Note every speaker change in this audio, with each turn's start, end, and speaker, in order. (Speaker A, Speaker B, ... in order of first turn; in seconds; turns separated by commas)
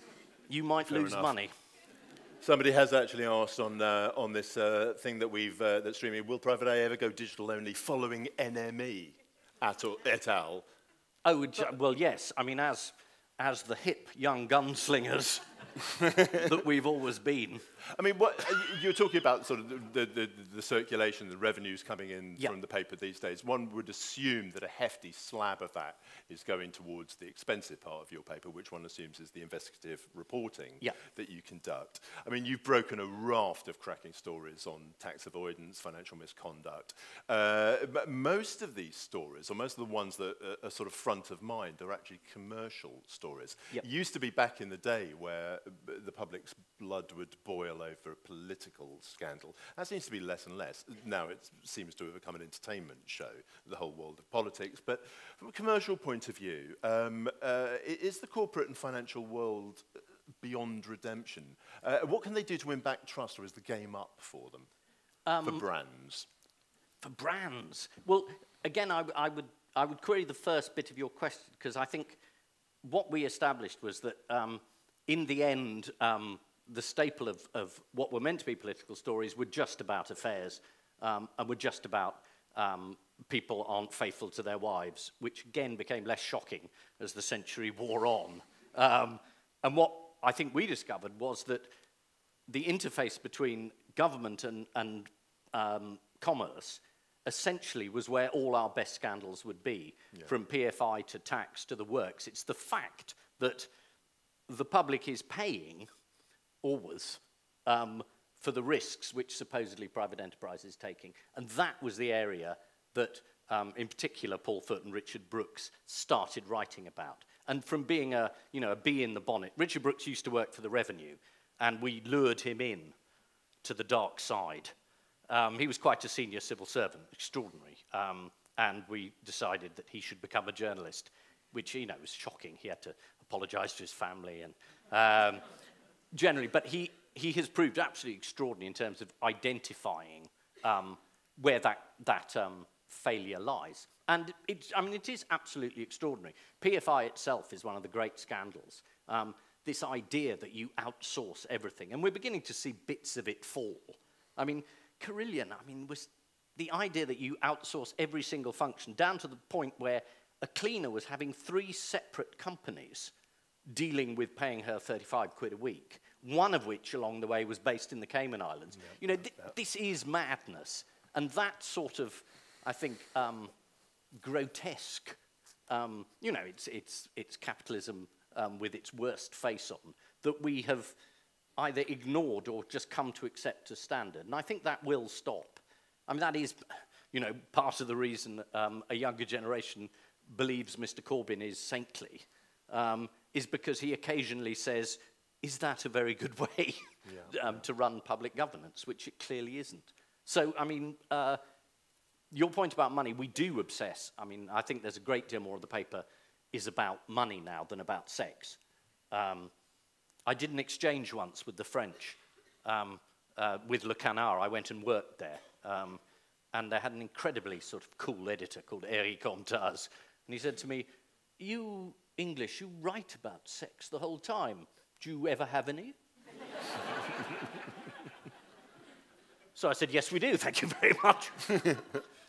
Speaker A: 0.5-1.5, Speaker B: 0.8-1.3, Speaker B: 2.4-10.7, Speaker A: 11.2-15.4, Speaker B: 15.9-16.4, Speaker A: 16.1-17.6, Speaker B: 17.9-59.9, Speaker B: 60.4-64.7, Speaker A: 65.3-65.7, Speaker B: 65.4-66.3, Speaker A: 67.0-72.2, Speaker A: 72.8-91.7, Speaker A: 92.5-103.7, Speaker A: 104.5-105.9, Speaker A: 106.6-122.9, Speaker A: 123.6-124.7, Speaker A: 125.3-135.4, Speaker A: 136.1-163.1, Speaker A: 163.7-173.5, Speaker B: 168.8-169.6, Speaker A: 174.2-175.2, Speaker A: 175.7-180.9, Speaker A: 181.6-201.4, Speaker B: 197.1-197.6, Speaker A: 202.3-208.6, Speaker A: 209.1-209.5, Speaker A: 210.3-216.0, Speaker A: 216.5-225.9, Speaker A: 229.6-231.8